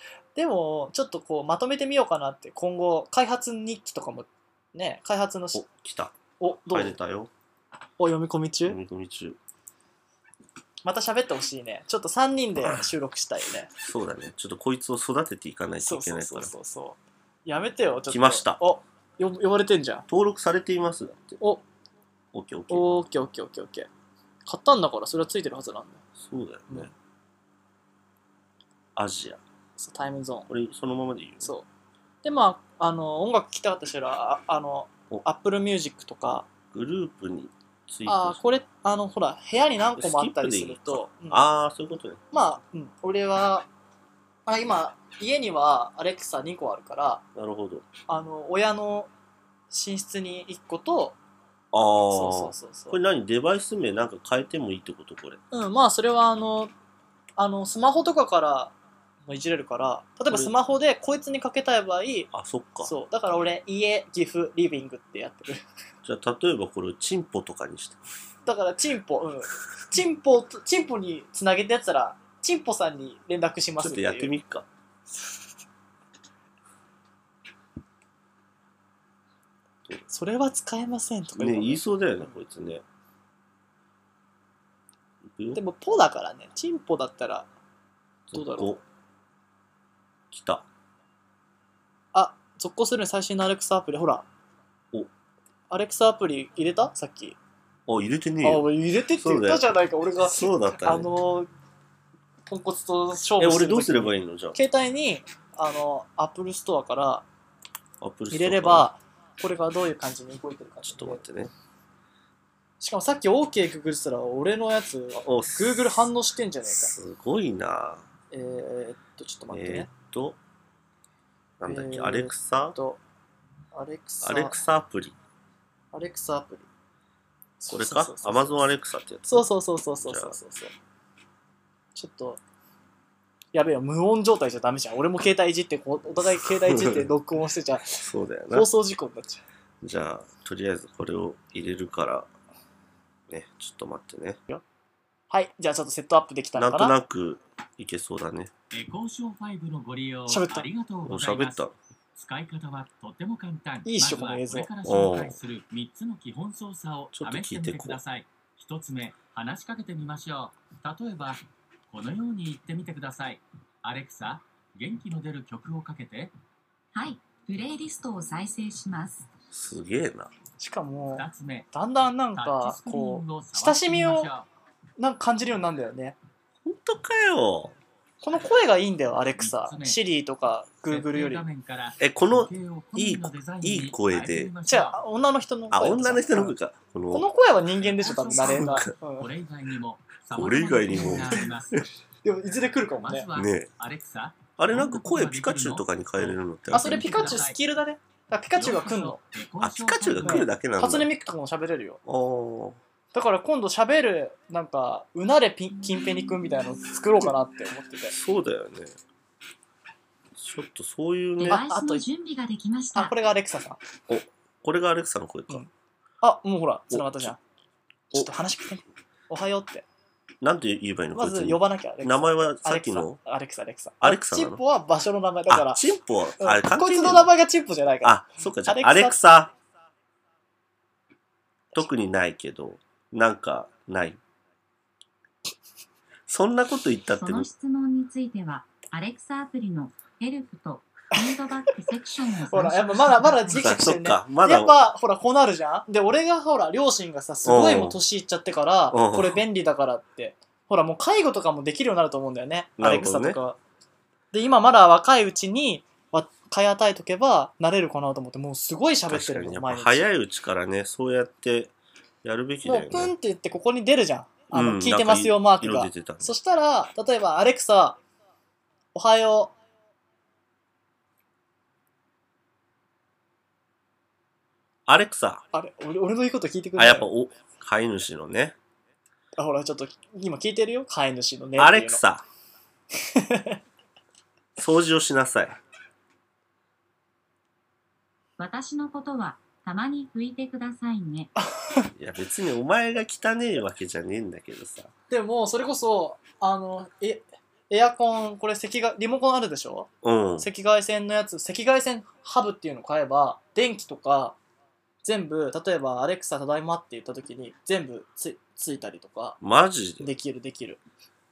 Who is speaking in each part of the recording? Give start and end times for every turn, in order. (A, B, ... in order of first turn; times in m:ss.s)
0:00.3-0:05.6 A
0:05.5-0:06.2 B
0:06.4-0:06.9 A
0:06.7-0:07.3 B
0:08.0-0:08.8 A
0:08.7-0:09.4 B
0:10.8-0:13.7 A
0:13.8-0:16.5 B
0:15.8-0:20.0 A
0:18.1-0:18.6 B
0:20.1-0:21.4 B
0:22.3-0:22.9 B
0:22.7-0:23.9 A
0:24.4-0:26.0 A
0:26.2-0:26.9 B
0:29.0-0:29.4 B
0:29.8-0:30.5 A
0:30.5-0:31.5 B
0:31.4-0:31.7 A
0:32.2-0:36.5 A
0:36.7-0:38.4 B
0:38.0-0:41.4 A
0:40.0-0:42.2 B
0:42.3-0:43.7 A
0:44.4-0:47.2 A
0:47.3-0:47.9 B
0:48.1-0:49.1 A
0:49.7-0:51.2 A
0:51.7-0:55.4 B
0:52.1-0:53.0 A
0:55.5-0:56.7 A
0:57.4-0:58.7 A
0:59.3-1:02.3 A
1:02.3-1:02.9 B
1:02.8-1:05.6 A
1:06.0-1:08.0 B
1:08.4-1:14.3 A
1:13.8-1:14.7 B
1:15.1-1:15.5 A
1:20.1-1:21.8 A
1:21.4-1:22.8 B
1:25.2-1:25.6 B
1:25.5-1:27.5 A
1:28.3-1:28.8 B
1:28.3-1:28.7 A
1:30.3-1:30.6 B
1:32.1-1:34.2 A
1:35.7-1:37.4 A
1:37.9-1:39.6 B
1:38.4-1:41.5 A
1:40.2-1:41.1 B
1:42.5-1:47.2 A
1:43.4-1:44.6 B
1:48.0-1:48.9 B
1:48.3-1:51.2 A
1:50.8-1:51.5 B
1:52.8-1:56.9 A
1:55.2-1:56.1 B
1:56.7-1:58.0 B
1:58.3-1:59.9 A
1:59.5-2:00.4 B
2:01.6-2:02.8 B
2:01.6-2:03.0 A
2:03.7-2:04.6 A
2:04.2-2:05.2 B
2:05.9-2:06.7 A
2:07.6-2:08.6 A
2:07.7-2:09.4 B
2:09.2-2:10.7 A
2:10.0-2:10.4 B
2:11.9-2:12.4 A
2:13.5-2:19.4 A
2:16.4-2:17.1 B
2:17.9-2:18.7 B
2:19.8-2:22.3 B
2:23.3-2:24.4 B
2:25.3-2:26.9 A
2:26.5-2:28.5 B
2:28.7-2:31.6 C
2:30.3-2:30.7 A
2:31.0-2:31.7 B
2:32.2-2:46.3 C
2:33.8-2:34.7 A
2:34.8-2:35.4 B
2:37.1-2:38.0 B
2:46.9-2:49.2 D
2:49.5-2:50.3 B
2:50.6-2:54.3 A
2:51.1-2:51.7 C
2:52.4-2:54.5 C
2:55.0-2:56.2 A
2:56.6-2:57.7 B
2:58.2-3:01.4 A
2:59.4-3:00.0 C
3:00.9-3:05.0 C
3:02.0-3:04.5 B
3:04.6-3:06.5 A
3:05.7-3:07.2 B
3:07.1-3:09.3 A
3:07.8-3:11.8 C
3:08.4-3:08.9 B
3:10.3-3:11.8 B
3:12.2-3:13.3 A
3:13.0-3:17.6 C
3:13.3-3:13.7 B
3:14.6-3:17.4 B
3:16.7-3:19.2 A
3:18.5-3:20.5 C
3:19.6-3:21.1 B
3:20.2-3:22.0 A
3:22.0-3:22.8 B
3:23.1-3:28.1 A
3:28.1-3:28.9 B
3:30.4-3:31.6 B
3:31.4-3:33.1 D
3:31.4-3:32.0 A
3:32.9-3:33.8 A
3:34.1-3:35.6 B
3:36.2-3:37.4 A
3:36.9-3:37.3 B
3:38.1-3:39.8 A
3:40.4-3:43.2 B
3:41.1-3:45.8 A
3:44.0-3:44.6 B
3:45.5-3:47.3 B
3:46.4-3:49.2 A
3:48.0-3:49.5 B
3:51.7-3:54.2 B
3:56.3-3:57.5 B
3:57.2-4:03.7 D
4:02.5-4:13.6 A
4:03.5-4:04.8 B
4:07.4-4:08.0 B
4:08.9-4:09.4 B
4:12.8-4:13.4 B
4:14.3-4:20.1 A
4:19.1-4:21.7 B
4:22.2-4:23.1 B
4:22.6-4:28.0 A
4:24.5-4:26.3 B
4:28.9-4:29.5 A
4:34.9-4:35.4 B
4:35.5-4:37.1 A
4:36.8-4:38.6 B
4:39.4-4:42.0 A
4:41.6-4:42.2 B
4:43.0-4:43.6 A
4:44.6-4:45.6 B
4:48.4-4:51.3 D
4:51.4-4:51.9 A
4:52.0-4:54.9 B
4:55.1-5:04.4 A
5:00.0-5:00.5 B
5:05.0-5:09.4 A
5:09.4-5:10.1 B
5:10.0-5:10.8 A